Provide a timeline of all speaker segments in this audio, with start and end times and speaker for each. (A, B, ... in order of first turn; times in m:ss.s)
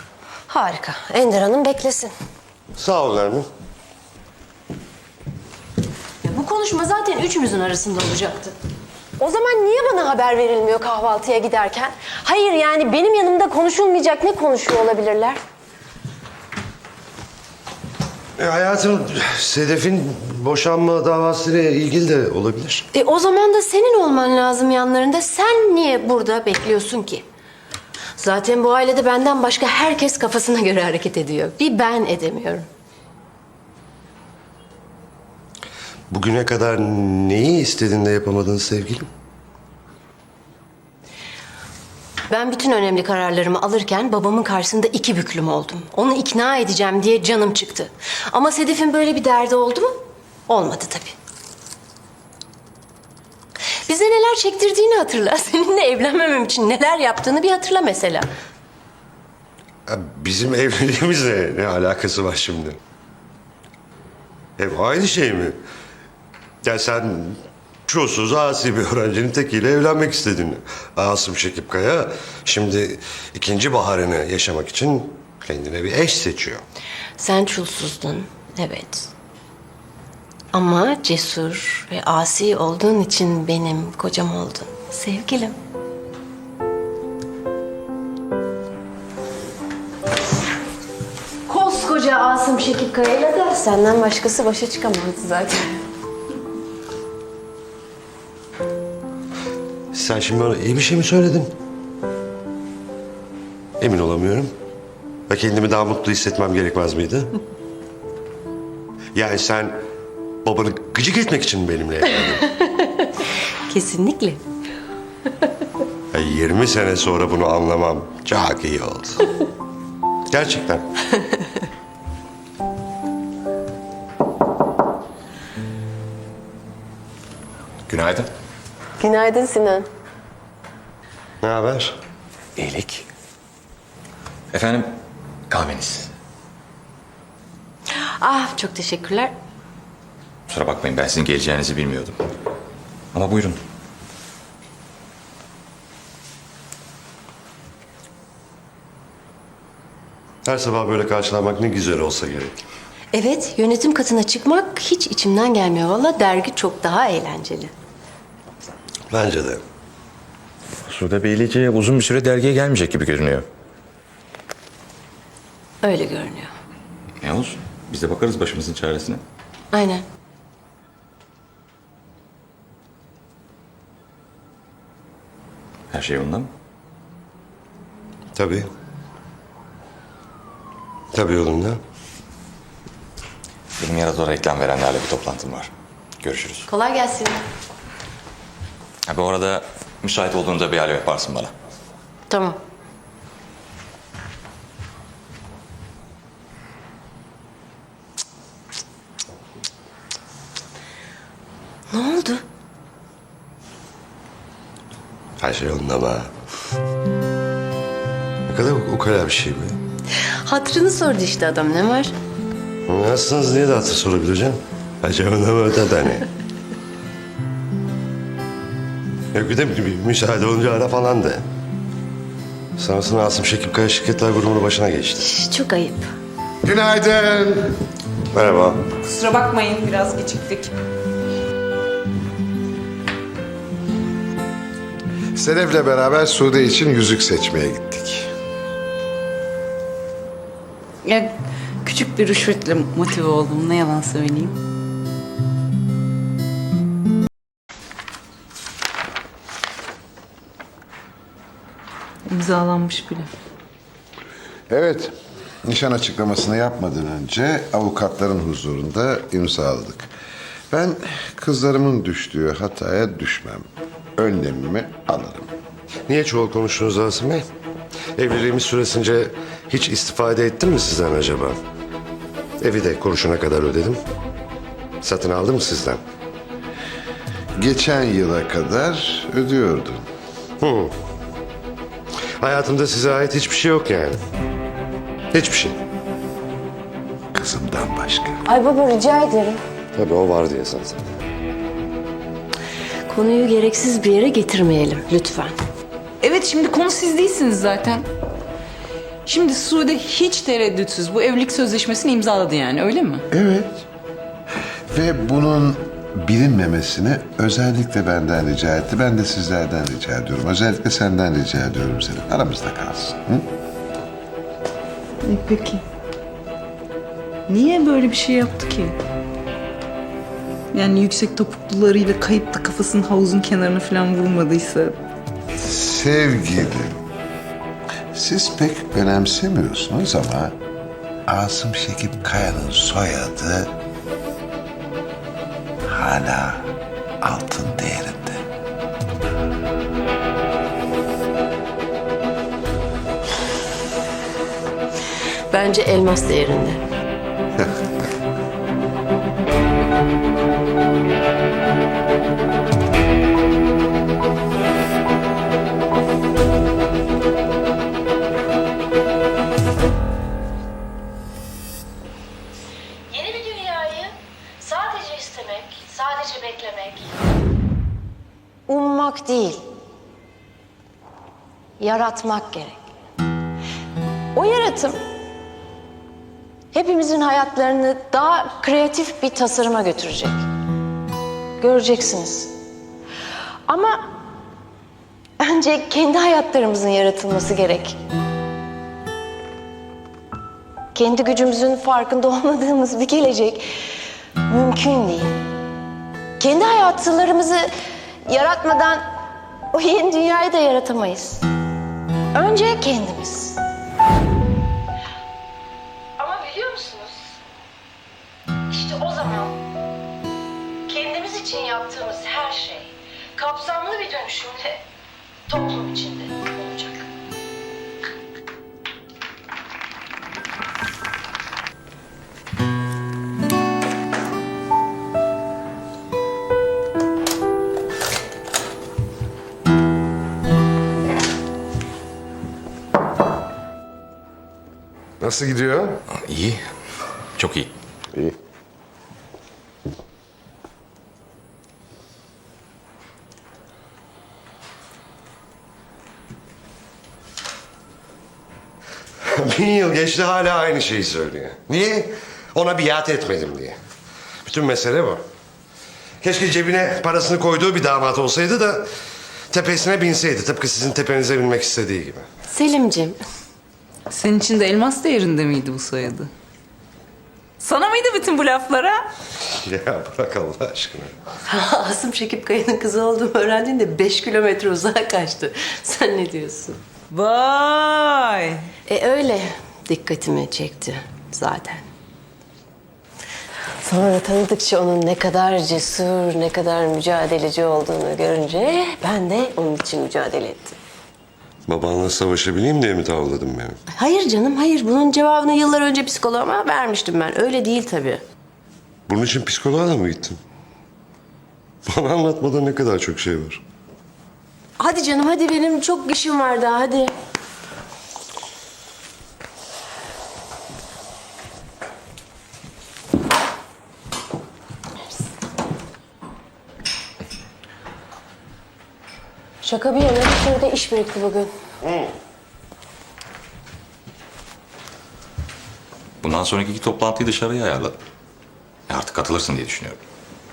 0:00.5-0:02.1 A
0:02.8-0:03.4 B
0:06.2-0:08.5 A
0:09.2-0:15.4 A
0:18.4-0:22.8 B
0:22.9-0:27.2 A
0:28.2-0:32.6 A
0:36.1-0:39.1 B
0:42.3-0:49.9 A
0:50.5-0:51.2 A
0:53.8-0:58.3 A
0:59.9-1:02.8 B
1:04.6-1:05.6 B
1:06.6-1:16.6 B
1:17.2-1:19.1 A
1:20.5-1:25.6 A
1:31.5-1:35.7 A
1:39.9-1:41.5 B
1:43.8-1:44.5 B
1:45.3-1:47.3 B
1:49.1-1:49.8 B
1:50.4-1:52.5 B
1:52.8-1:53.0 A
1:53.7-1:54.4 A
1:56.1-1:59.3 B
2:00.3-2:00.9 B
2:07.9-2:08.3 C
2:09.0-2:09.9 A
2:11.4-2:12.0 B
2:12.6-2:13.1 C
2:14.5-2:15.0 C
2:15.5-2:16.1 C
2:18.2-2:19.3 A
2:20.5-2:22.2 C
2:23.1-2:23.6 C
2:30.4-2:32.5 B
2:33.1-2:37.7 A
2:39.1-2:39.6 B
2:40.9-2:43.5 C
2:45.8-2:46.5 A
2:47.2-2:49.2 C
2:49.7-2:50.0 A
2:55.9-2:56.5 C
2:58.3-2:58.7 B
3:01.1-3:01.8 B
3:03.8-3:05.7 C
3:06.2-3:06.7 C
3:06.7-3:07.4 A
3:09.0-3:11.5 C
3:12.3-3:12.6 A
3:21.9-3:22.4 A
3:25.4-3:26.3 B
3:28.5-3:29.8 B
3:30.4-3:32.1 A
3:32.9-3:36.3 B
3:39.3-3:41.4 B
3:42.8-3:45.3 B
3:45.2-3:46.1 A
3:46.6-3:47.7 D
3:48.3-3:48.8 B
3:49.0-3:50.7 E
3:55.3-3:58.3 D
4:01.0-4:01.3 E
4:01.8-4:04.6 E
4:12.3-4:13.3 E
4:14.7-4:20.1 D
4:20.7-4:23.6 D
4:24.2-4:25.5 D
4:26.1-4:27.4 B
4:28.2-4:31.6 B
4:32.6-4:34.0 B
4:35.0-4:36.0 B
4:37.5-4:40.0 D
4:40.6-4:40.9 B
4:42.4-4:44.2 B
4:45.3-4:45.8 B
4:47.3-4:48.4 D
4:48.4-4:49.6 A
4:49.9-4:51.0 B
4:53.1-4:55.5 A
4:56.2-4:58.0 E
4:59.2-5:03.2 E
5:03.3-5:03.8 D
5:04.9-5:13.5 D
5:15.2-5:15.8 E
5:17.5-5:19.0 E
5:20.7-5:25.0 E
5:25.6-5:27.0 D
5:28.1-5:30.6 D
5:31.3-5:33.7 D
5:35.9-5:36.7 D
5:37.2-5:38.4 D
5:45.5-5:46.8 A
6:03.1-6:07.1 A
6:08.7-6:09.6 A
6:11.8-6:12.8 A
6:14.3-6:15.0 A
6:16.7-6:20.4 A
6:21.6-6:22.5 A
6:23.7-6:24.1 A
6:25.4-6:28.0 A
6:30.9-6:33.7 A
6:34.5-6:35.3 A
6:36.4-6:37.7 A
6:38.3-6:39.0 A
6:39.7-6:41.4 A
6:42.3-6:43.6 A
6:46.2-6:47.4 A
6:48.7-6:49.6 A
6:50.8-6:54.8 A
6:55.5-6:57.0 A
7:15.2-7:16.0 D
7:16.1-7:16.6 C
7:17.4-7:17.7 C
7:29.2-7:33.8 B
7:34.4-7:35.2 B
7:36.2-7:38.9 B
7:39.5-7:42.2 B
7:42.5-7:43.2 A
7:44.1-7:46.3 E
7:47.6-7:49.0 E
7:49.5-7:51.1 B
7:51.5-7:56.8 A
7:57.1-7:58.7 E
7:58.8-8:01.8 A
8:03.8-8:10.8 A
8:11.7-8:13.8 B
8:13.9-8:18.2 A
8:19.1-8:20.4 B
8:21.9-8:23.6 B
8:24.8-8:27.1 A
8:39.6-8:41.5 A
8:41.8-8:42.1 B
8:46.2-8:48.0 C
8:48.9-8:50.0 C